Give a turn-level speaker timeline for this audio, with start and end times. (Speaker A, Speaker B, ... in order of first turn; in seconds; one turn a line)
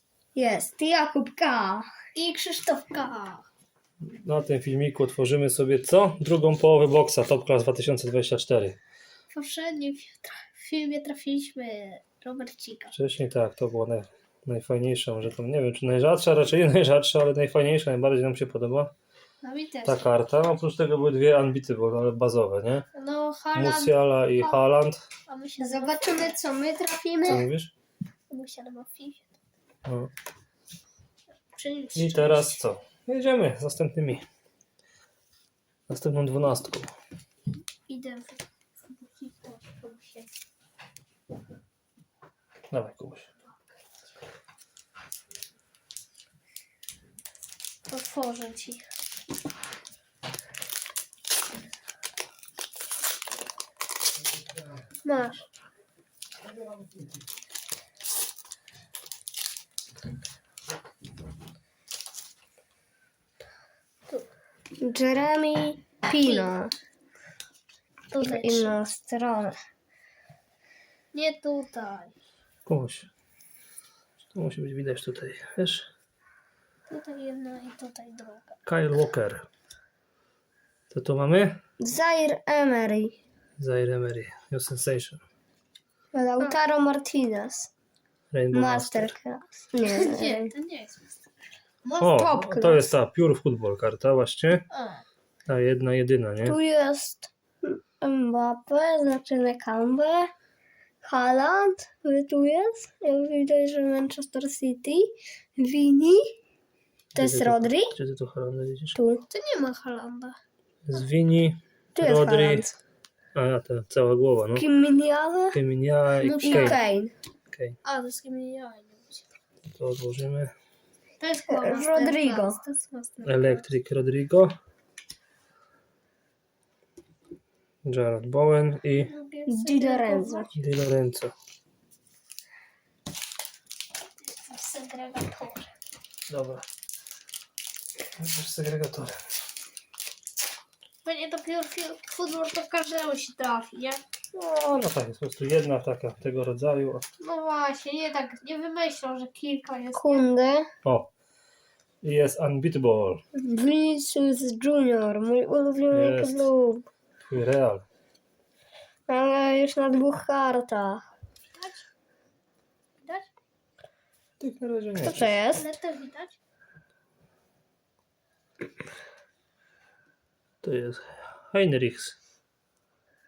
Speaker A: 0.3-1.9
Speaker B: 2.1-3.5
Speaker C: 4.0-8.8
Speaker B: 9.3-12.9
Speaker C: 12.9-18.9
Speaker B: 19.4-20.1
Speaker C: 19.9-22.9
Speaker B: 22.9-24.7
Speaker C: 23.5-25.0
Speaker B: 25.3-26.4
Speaker A: 25.6-27.5
Speaker C: 27.2-27.7
Speaker B: 28.3-29.3
Speaker C: 29.9-30.1
Speaker B: 31.5-32.6
Speaker C: 31.9-34.2
Speaker C: 35.9-36.9
Speaker B: 37.9-40.3
Speaker C: 42.7-43.3
Speaker B: 47.9-48.9
Speaker B: 55.0-55.4
Speaker A: 64.8-66.7
Speaker B: 66.1-66.6
Speaker B: 68.1-68.7
Speaker A: 68.2-69.6
Speaker B: 71.1-72.1
Speaker C: 72.7-73.1
Speaker C: 74.3-75.9
Speaker B: 76.9-78.5
Speaker C: 78.7-79.5
Speaker C: 80.9-81.6
Speaker A: 81.8-83.2
Speaker C: 83.6-85.2
Speaker A: 86.1-87.7
Speaker C: 88.3-89.1
Speaker A: 88.5-90.5
Speaker B: 89.8-91.2
Speaker B: 91.8-92.6
Speaker C: 92.0-94.7
Speaker A: 92.4-92.8
Speaker B: 94.7-95.0
Speaker C: 95.5-96.6
Speaker A: 96.5-100.3
Speaker A: 101.0-106.3
Speaker C: 107.1-109.0
Speaker A: 107.2-108.0
Speaker A: 109.0-109.2
Speaker B: 109.3-110.4
Speaker C: 110.9-112.7
Speaker A: 112.0-112.8
Speaker C: 113.3-114.7
Speaker A: 114.6-115.6
Speaker C: 115.5-116.8
Speaker B: 116.2-116.8
Speaker A: 116.4-117.1
Speaker C: 117.5-117.8
Speaker B: 117.8-119.2
Speaker C: 119.7-120.5
Speaker B: 121.2-123.7
Speaker A: 121.5-122.6
Speaker C: 123.2-124.6
Speaker C: 127.8-129.1
Speaker B: 129.1-130.6
Speaker A: 129.5-130.5
Speaker C: 130.6-131.3
Speaker B: 134.3-135.7
Speaker C: 136.3-136.6
Speaker C: 138.2-139.2
Speaker B: 141.0-144.0
Speaker C: 144.3-147.0
Speaker B: 147.2-150.3
Speaker A: 149.9-150.7
Speaker C: 150.8-151.1
Speaker C: 152.0-153.2
Speaker A: 153.3-156.9
Speaker C: 155.9-156.5
Speaker C: 157.2-157.8
Speaker A: 159.1-161.1
Speaker B: 161.6-161.8
Speaker B: 163.0-163.3
Speaker C: 164.4-165.4
Speaker A: 165.0-165.7
Speaker B: 165.6-166.4
Speaker C: 170.6-172.2